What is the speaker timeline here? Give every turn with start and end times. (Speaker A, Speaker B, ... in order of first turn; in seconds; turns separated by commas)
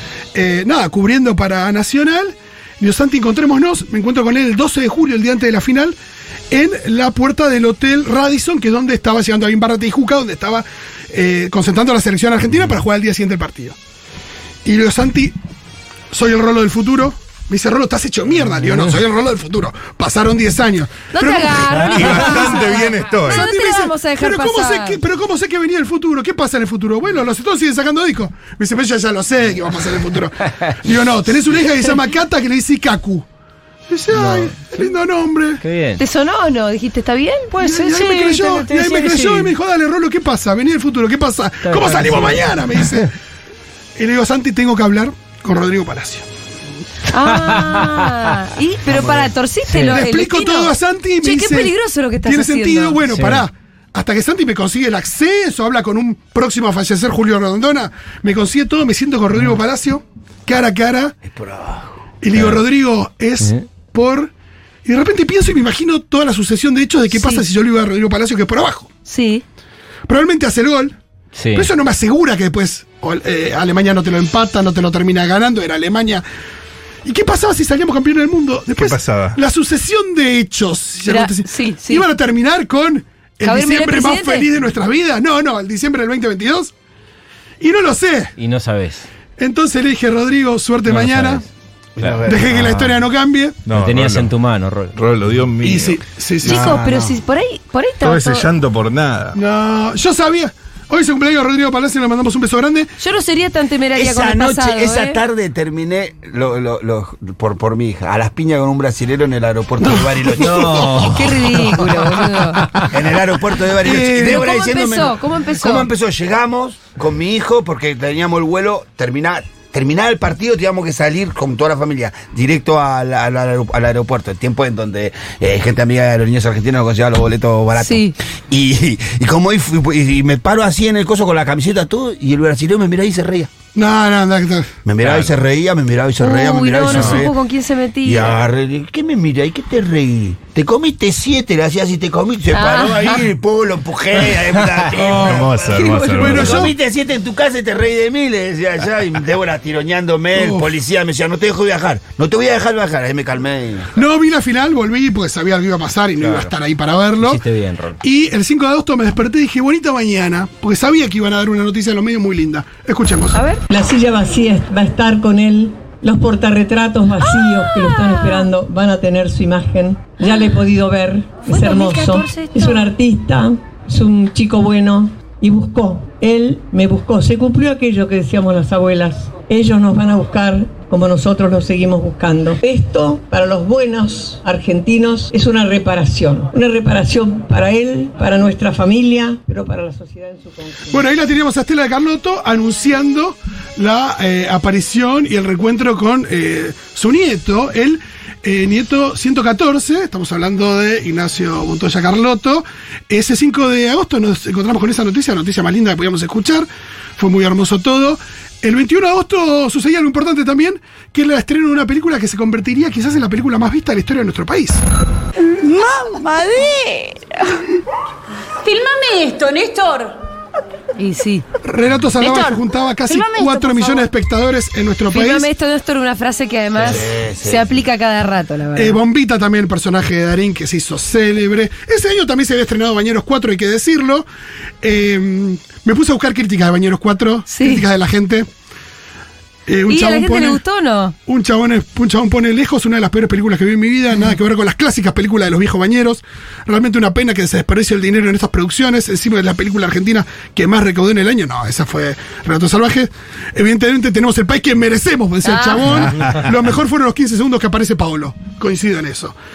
Speaker A: 0.3-6.0, Speaker A: 6.5-13.8, Speaker A: 14.7-15.4, Speaker A: 16.1-22.5, Speaker B: 21.1-25.0, Speaker C: 21.8-23.5, Speaker A: 23.2-33.3, Speaker A: 33.9-35.6, Speaker D: 34.1-34.9, Speaker D: 35.6-36.0, Speaker B: 36.0-37.8, Speaker D: 37.5-39.5, Speaker A: 37.6-43.1, Speaker D: 41.7-42.5, Speaker A: 44.0-46.3, Speaker B: 47.1-53.0, Speaker D: 47.4-48.2, Speaker D: 49.7-50.0, Speaker A: 49.8-61.2, Speaker D: 53.1-53.5, Speaker E: 61.3-61.9, Speaker A: 62.2-64.3, Speaker D: 62.3-62.6, Speaker D: 63.4-63.6, Speaker A: 64.8-68.9, Speaker B: 67.1-67.4, Speaker B: 69.1-69.4, Speaker A: 70.1-71.0, Speaker D: 71.3-71.7, Speaker A: 71.5-76.2, Speaker A: 77.0-86.7, Speaker C: 78.8-79.4, Speaker B: 81.1-82.1, Speaker B: 83.4-84.5, Speaker A: 87.6-88.3, Speaker D: 88.4-89.1, Speaker A: 89.4-91.4, Speaker D: 90.9-91.5, Speaker E: 92.0-92.5, Speaker A: 92.2-93.6, Speaker C: 93.7-94.3, Speaker D: 93.7-95.0, Speaker C: 95.0-96.0, Speaker A: 95.6-96.8, Speaker B: 96.4-98.5, Speaker E: 96.5-97.2, Speaker C: 98.0-99.4, Speaker A: 99.3-102.9, Speaker B: 103.0-105.2, Speaker E: 104.0-111.2, Speaker A: 109.8-111.0, Speaker D: 110.4-112.9, Speaker B: 111.1-112.7, Speaker E: 112.9-133.5, Speaker A: 113.8-114.5, Speaker B: 114.1-115.9, Speaker B: 127.8-128.2, Speaker A: 133.8-134.7, Speaker E: 134.9-137.3, Speaker B: 136.2-138.4, Speaker C: 136.9-137.2, Speaker E: 138.0-153.9, Speaker B: 142.5-143.2, Speaker C: 145.0-146.7, Speaker A: 146.1-146.8, Speaker A: 150.3-150.7, Speaker A: 153.9-157.4, Speaker D: 157.2-158.0, Speaker A: 158.0-163.4, Speaker B: 163.3-163.6, Speaker F: 163.7-191.0, Speaker B: 167.2-168.5, Speaker B: 171.5-172.9, Speaker A: 190.9-214.8, Speaker G: 215.4-217.6, Speaker G: 218.6-220.2, Speaker B: 221.0-221.4, Speaker A: 221.6-225.5, Speaker G: 222.2-224.1, Speaker B: 225.1-229.0, Speaker E: 226.8-227.8, Speaker A: 228.8-234.3, Speaker A: 234.8-238.5, Speaker B: 237.5-237.8, Speaker A: 239.7-240.6, Speaker B: 239.9-241.2, Speaker A: 241.3-259.4, Speaker B: 255.4-256.1